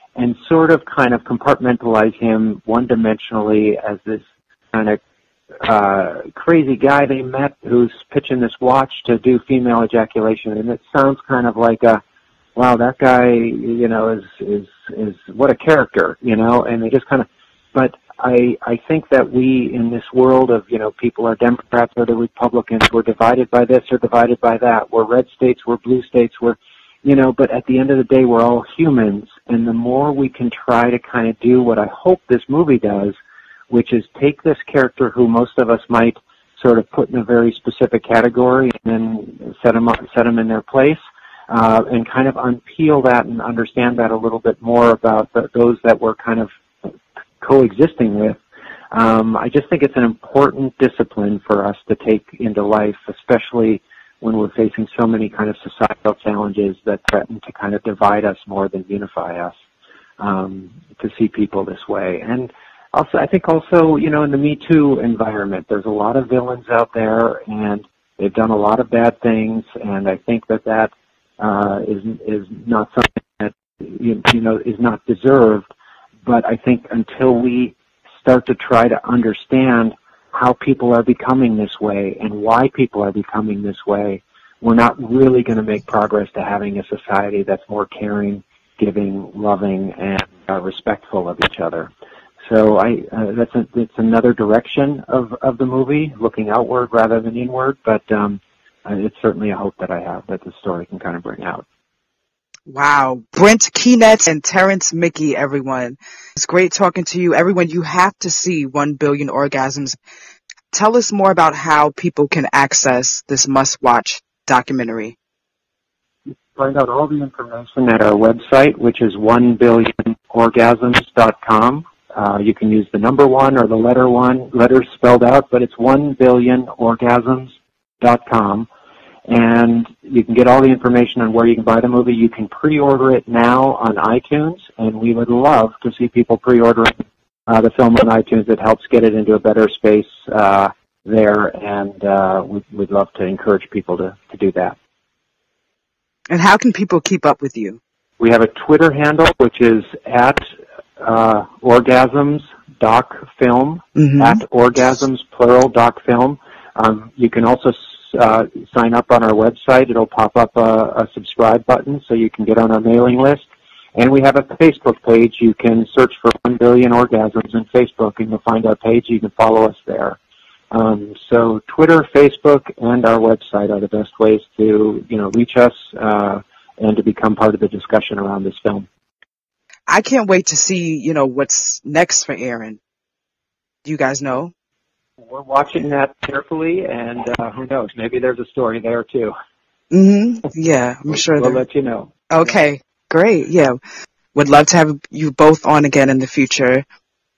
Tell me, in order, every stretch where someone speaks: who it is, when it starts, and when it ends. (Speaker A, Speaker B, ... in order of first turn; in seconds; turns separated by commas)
Speaker A: 0.1-5.0, Speaker A: 5.6-12.0, Speaker A: 12.5-33.1, Speaker A: 33.7-46.5, Speaker A: 47.4-48.4, Speaker A: 48.9-59.5, Speaker A: 60.2-75.7, Speaker A: 76.2-91.9, Speaker A: 92.4-101.6, Speaker B: 102.7-110.0, Speaker B: 110.7-115.1, Speaker A: 116.5-128.7, Speaker A: 129.3-144.8, Speaker B: 146.3-147.8, Speaker A: 148.2-150.5, Speaker A: 151.0-170.2, Speaker B: 154.0-154.4, Speaker A: 170.7-178.9, Speaker B: 179.9-182.8, Speaker B: 183.8-184.5, Speaker A: 185.2-189.3, Speaker B: 189.9-191.6, Speaker A: 191.1-192.1, Speaker B: 192.3-193.8, Speaker B: 194.3-196.8